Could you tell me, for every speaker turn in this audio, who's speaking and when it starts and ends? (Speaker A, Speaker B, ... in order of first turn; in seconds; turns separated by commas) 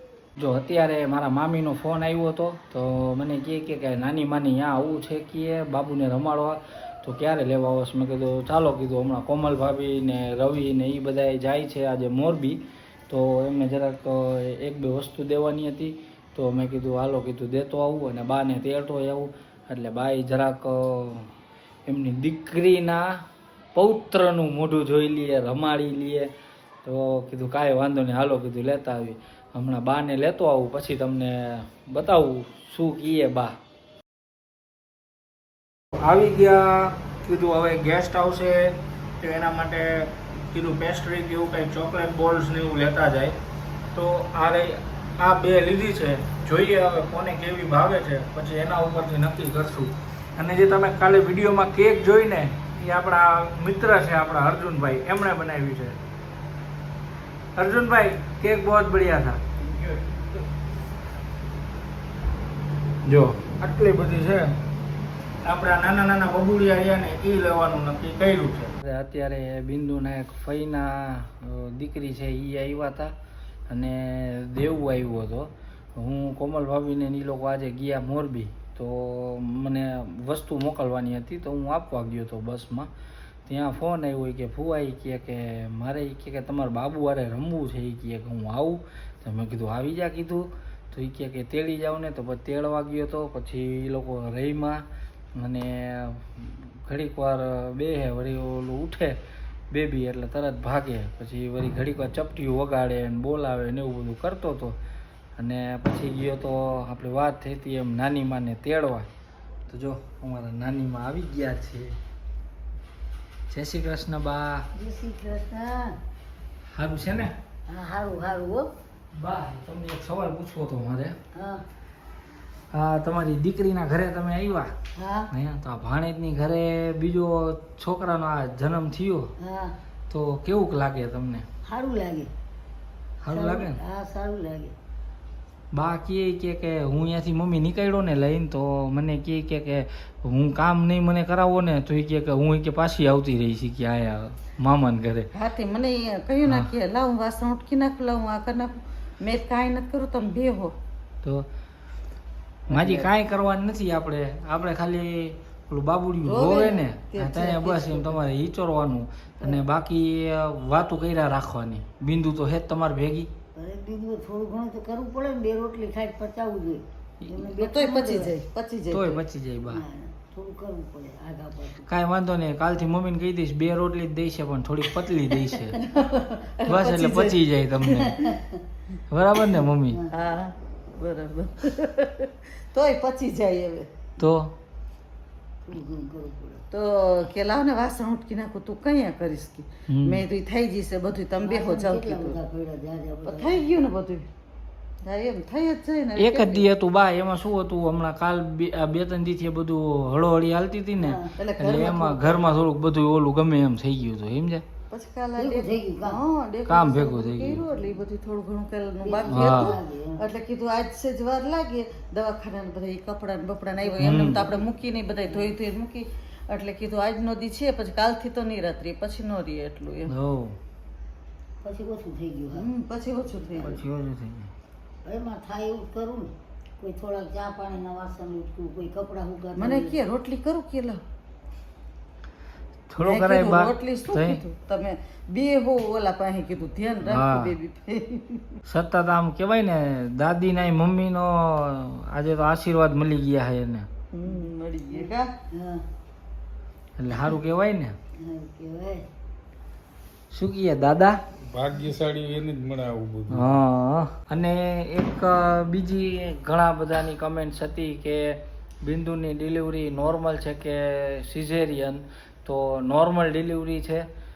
Speaker A: 0.4-21.3, Speaker A: 21.9-23.1, Speaker A: 23.8-26.3, Speaker A: 26.8-33.5, Speaker A: 36.0-43.4, Speaker A: 43.9-56.0, Speaker A: 57.6-59.4, Speaker A: 63.0-64.5, Speaker A: 65.4-73.1, Speaker A: 73.7-82.9, Speaker A: 83.5-94.8, Speaker A: 95.4-99.2, Speaker A: 99.7-104.8, Speaker A: 105.4-109.1, Speaker A: 109.7-112.0, Speaker A: 113.5-114.6, Speaker B: 114.8-116.0, Speaker A: 116.7-117.3, Speaker B: 117.7-118.7, Speaker A: 119.1-121.1, Speaker B: 121.3-121.6, Speaker A: 122.7-124.7, Speaker B: 125.0-125.3, Speaker A: 125.3-129.3, Speaker B: 129.4-129.8, Speaker A: 130.1-131.4, Speaker B: 131.7-132.3, Speaker A: 133.2-133.8, Speaker B: 133.3-134.8, Speaker A: 135.7-145.3, Speaker C: 145.3-150.7, Speaker A: 152.7-163.3, Speaker C: 152.7-153.1, Speaker C: 156.2-158.2, Speaker B: 163.6-168.4, Speaker A: 167.2-167.5, Speaker C: 167.6-169.2, Speaker A: 168.9-169.8, Speaker B: 169.7-171.9, Speaker A: 171.8-175.8, Speaker C: 175.8-177.4, Speaker A: 176.7-178.2, Speaker B: 178.2-178.6, Speaker A: 179.1-180.0, Speaker C: 180.1-183.9, Speaker A: 184.2-184.5, Speaker B: 185.6-186.6, Speaker C: 186.7-192.4, Speaker A: 189.9-190.2, Speaker B: 191.4-193.9, Speaker C: 193.2-194.2, Speaker C: 195.1-196.7, Speaker A: 196.2-204.6, Speaker B: 201.0-201.3, Speaker C: 201.4-202.5, Speaker C: 204.9-220.1, Speaker B: 205.4-206.2, Speaker A: 206.7-207.6, Speaker B: 209.0-210.2, Speaker A: 209.3-209.8, Speaker A: 214.0-214.5, Speaker B: 215.3-215.5, Speaker A: 220.1-220.6, Speaker B: 221.6-222.7, Speaker C: 222.5-223.8, Speaker A: 223.6-224.5, Speaker B: 225.1-230.0, Speaker C: 229.6-231.0, Speaker A: 232.9-234.4, Speaker C: 233.0-238.5, Speaker A: 237.1-237.5, Speaker A: 238.7-243.8, Speaker C: 244.1-245.3, Speaker B: 244.9-245.8, Speaker A: 247.0-247.9, Speaker B: 248.2-249.1, Speaker A: 250.3-251.2, Speaker D: 251.4-253.5, Speaker A: 253.3-264.1